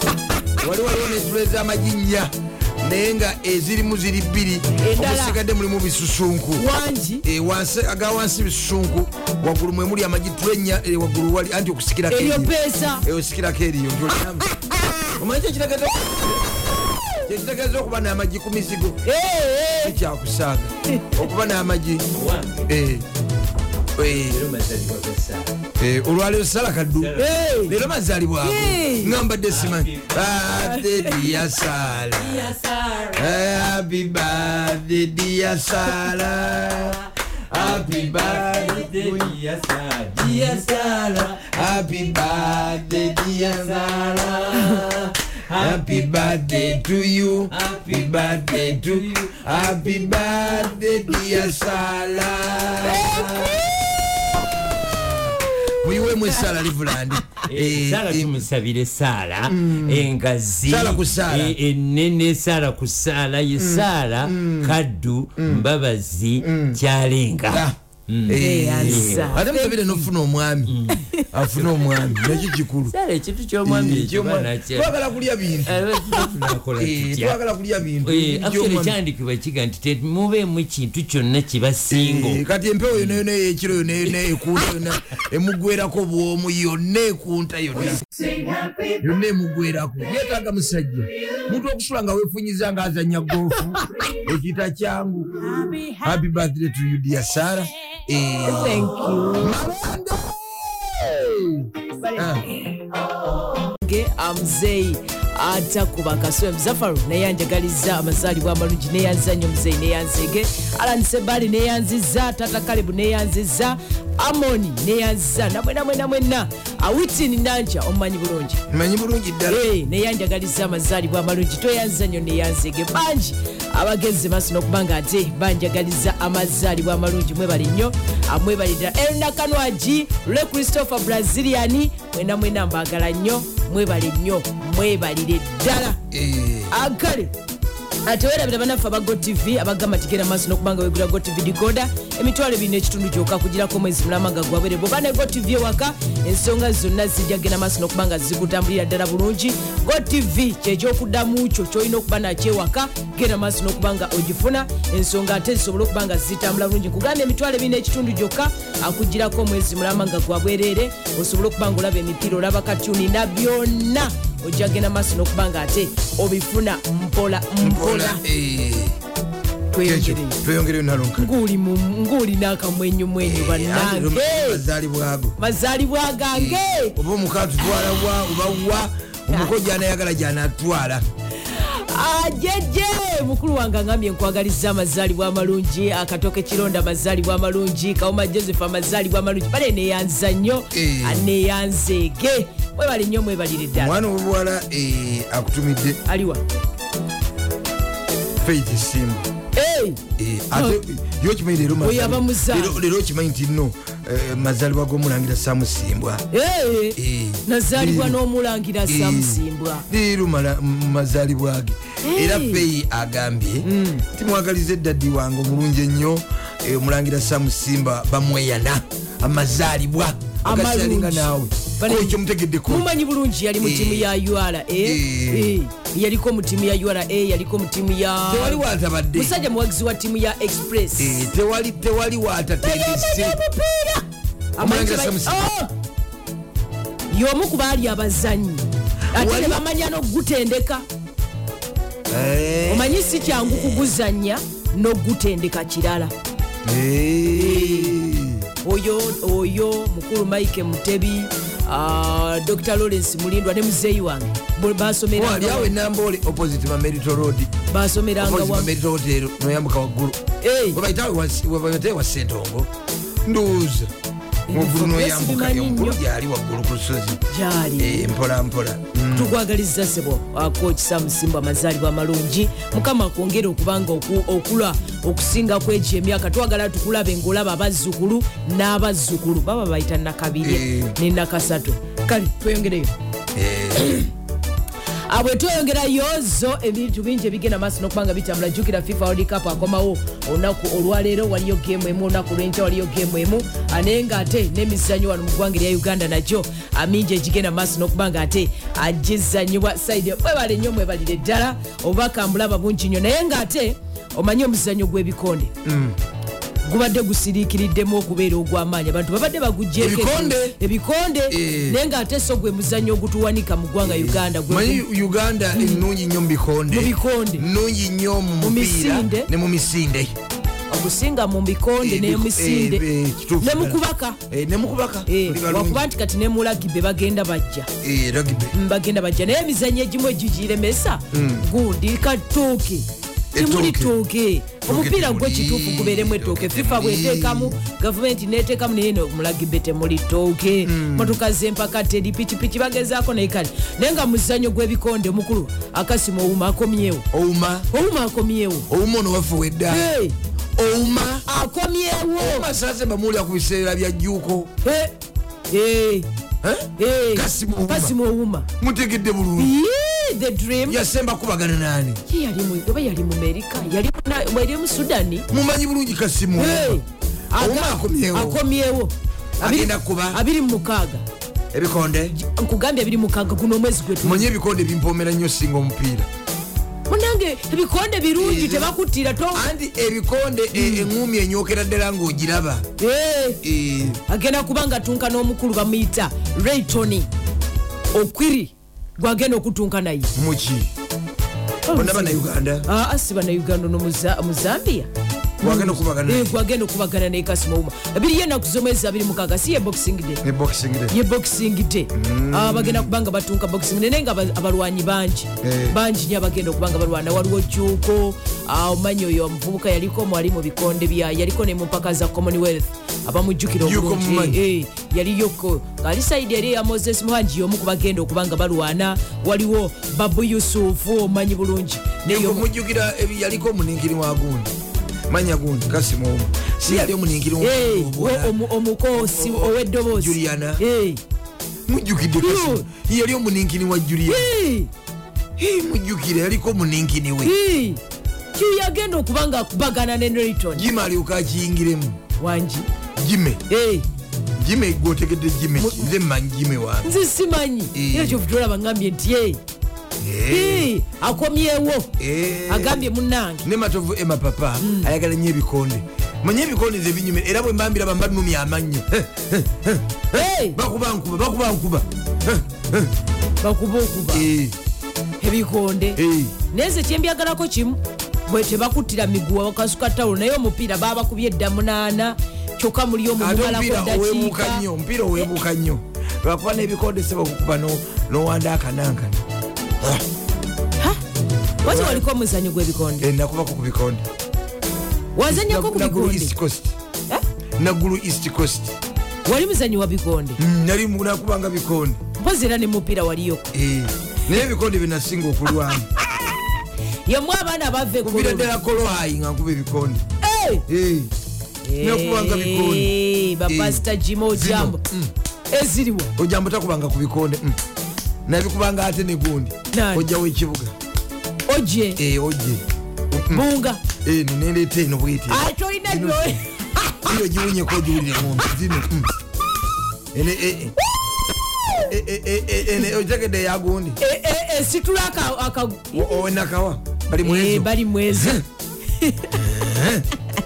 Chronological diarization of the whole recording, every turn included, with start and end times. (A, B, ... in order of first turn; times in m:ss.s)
0:00.6-0:06.7 A
0:04.8-0:05.4 B
0:06.6-0:07.2 B
0:07.2-0:14.5 A
0:12.1-0:13.0 B
0:14.5-0:15.1 B
0:15.2-0:16.5 A
0:17.2-0:19.0 A
0:19.0-0:20.0 B
0:19.8-0:22.1 A
0:22.1-0:22.7 C
0:22.7-0:23.0 A
0:24.0-0:24.4 A
0:24.0-0:25.6 C
0:25.8-0:32.5 A
0:27.0-0:27.3 C
0:27.2-0:27.8 B
0:28.4-0:29.2 B
0:29.5-0:30.6 C
0:30.8-0:31.1 B
0:32.1-0:33.4 C
0:33.2-0:37.0 A
0:37.5-0:39.3 A
0:37.5-0:46.7 C
0:40.2-0:40.7 A
0:41.2-0:44.8 A
0:45.6-0:53.7 A
0:47.5-0:50.2 C
0:53.0-0:53.9 B
0:55.7-0:58.5 A
0:57.5-1:09.4 C
0:59.5-1:00.1 A
1:00.6-1:01.6 A
1:03.6-1:04.8 A
1:05.4-1:05.7 A
1:06.4-1:06.8 A
1:07.5-1:07.8 A
1:08.3-1:10.8 A
1:08.4-1:10.1 B
1:10.7-1:12.0 C
1:11.3-1:12.9 A
1:12.9-1:14.9 C
1:13.6-1:19.0 A
1:15.6-1:17.4 C
1:18.0-1:22.4 C
1:21.9-1:28.0 A
1:23.0-1:23.2 C
1:28.3-1:28.9 B
1:29.0-1:35.3 A
1:35.5-1:36.0 B
1:36.0-1:42.5 A
1:38.5-1:39.6 B
1:42.0-1:42.3 B
1:43.7-1:58.6 B
1:58.7-1:59.6 A
1:59.5-2:16.0 B
2:16.1-2:16.7 A
2:16.7-2:17.3 B
2:18.1-2:48.2 B
2:47.6-2:49.0 A
2:49.7-2:50.4 B
2:49.8-2:51.3 A
2:51.2-2:54.6 B
2:53.2-2:55.4 A
2:55.4-2:57.0 B
2:56.3-3:01.0 A
3:01.4-3:13.9 B
3:10.7-3:11.3 A
3:13.7-3:16.0 A
3:16.1-3:16.4 B
3:18.4-3:19.3 A
3:19.6-3:20.0 B
3:20.2-3:26.2 A
3:20.5-3:20.8 B
3:21.8-3:22.8 B
3:26.3-3:29.8 B
3:27.0-3:28.2 A
3:28.9-3:42.9 A
3:32.0-3:32.7 B
3:33.6-3:34.0 B
3:40.4-3:51.3 B
3:43.6-3:44.1 A
3:44.8-3:45.6 A
3:48.3-3:49.4 A
3:51.0-3:53.4 A
3:52.6-3:54.1 B
3:54.6-3:55.7 B
3:54.6-3:55.4 A
3:57.1-4:00.8 B
3:59.2-3:59.6 A
4:02.1-4:03.9 A
4:02.7-4:06.1 B
4:06.6-4:08.5 A
4:07.4-4:08.0 B
4:08.6-4:15.7 B
4:15.1-4:17.5 A
4:17.7-4:18.7 B
4:18.2-4:20.2 A
4:20.4-4:20.8 B
4:20.7-4:22.7 A
4:23.3-4:23.9 A
4:24.5-4:26.0 B
4:24.5-4:27.2 A
4:27.3-4:28.1 B
4:27.8-4:29.4 A
4:29.1-4:42.9 B
4:40.4-4:41.0 A
4:43.4-4:44.0 A
4:45.1-5:05.5 B
5:05.6-5:06.0 A
5:06.7-5:14.8 B
5:09.8-5:10.6 A
5:11.3-5:11.8 A
5:13.8-5:20.2 A
5:15.6-5:15.8 B
5:16.7-5:17.4 B
5:18.4-5:19.3 B
5:20.7-5:22.8 B
5:21.8-5:25.9 A
5:23.4-5:24.2 B
5:25.1-5:27.7 B
5:27.8-5:28.5 A
5:28.5-5:47.0 B
5:31.1-5:31.4 A
5:33.4-5:33.9 A
5:34.7-5:37.6 A
5:40.6-5:41.2 A
5:47.1-5:47.7 A
5:47.7-5:48.6 B
5:48.7-5:49.9 A
5:49.7-5:50.2 B
5:50.6-5:51.3 A
5:51.3-5:52.5 B
5:52.2-5:54.5 A
5:54.6-5:54.9 B
5:55.5-5:56.1 B
5:56.4-5:58.0 A
5:56.8-5:58.5 B
5:58.6-5:59.5 A
5:59.4-6:00.8 B
6:00.7-6:02.0 A
6:02.1-6:05.3 B
6:05.3-6:06.8 A
6:06.4-6:11.0 B
6:07.4-6:08.4 A
6:09.4-6:10.2 A
6:11.5-6:12.2 A
6:12.1-6:14.3 B
6:14.0-6:16.1 A
6:16.9-6:19.4 B
6:18.2-6:18.8 A
6:19.3-6:22.7 A
6:20.5-6:20.9 B
6:22.8-6:23.4 B
6:23.4-6:24.0 A
6:24.1-6:27.1 B
6:27.9-6:30.1 B
6:30.2-6:30.7 A
6:31.7-6:34.9 B
6:31.7-6:32.7 A
6:35.4-6:40.2 B
6:35.4-6:36.4 A
6:40.2-6:41.0 A
6:40.9-7:02.5 B
6:41.9-6:42.9 A
6:45.4-6:45.8 A
6:53.6-6:54.4 A
7:02.0-7:04.5 A
7:05.1-7:08.4 A
7:07.4-7:11.0 B
7:08.9-7:10.6 A
7:11.7-7:14.3 A
7:12.2-7:12.7 B
7:14.1-7:14.7 B
7:15.4-7:17.3 A
7:17.2-7:17.8 B
7:18.4-7:20.7 B
7:20.5-7:22.0 A
7:22.2-7:22.7 B
7:23.0-7:23.4 A
7:23.5-7:23.9 B
7:24.4-7:26.9 A
7:25.6-7:25.9 B
7:26.8-7:29.4 B
7:27.7-7:28.2 A
7:30.0-7:30.7 A
7:30.3-7:31.9 B
7:32.0-7:32.9 A
7:32.5-7:33.4 B
7:33.4-7:42.9 A
7:34.6-7:34.9 B
7:40.1-7:40.6 B
7:43.4-7:44.3 B
7:44.1-7:44.6 A
7:45.2-7:46.0 B
7:46.0-7:46.4 A
7:46.5-7:54.6 B
7:53.2-7:59.2 A
8:01.6-8:03.1 B
8:01.6-8:02.1 A
8:03.0-8:04.1 A
8:05.2-8:06.4 B
8:05.3-8:06.8 A
8:07.6-8:08.8 A
8:09.2-8:10.4 B
8:10.4-8:12.0 A
8:12.2-8:13.5 B
8:13.5-8:15.9 A
8:17.1-8:18.5 B
8:18.0-8:20.0 A
8:20.2-8:20.6 B
8:20.7-8:21.1 A
8:21.6-8:24.8 B
8:21.8-8:22.9 A
8:23.5-8:25.1 A
8:25.5-8:26.1 B
8:26.2-8:27.6 A
8:28.3-8:30.7 A
8:29.7-8:30.1 B
8:31.5-8:32.0 B
8:32.0-8:33.4 A
8:33.3-8:33.8 B
8:34.0-8:36.4 A
8:35.3-8:37.1 B
8:37.0-8:39.1 A
8:40.1-8:40.8 A
8:41.9-8:44.0 A
8:44.0-8:46.2 B
8:45.9-8:48.4 A
8:47.2-8:48.4 B
8:49.0-8:49.3 B
8:49.3-8:50.1 A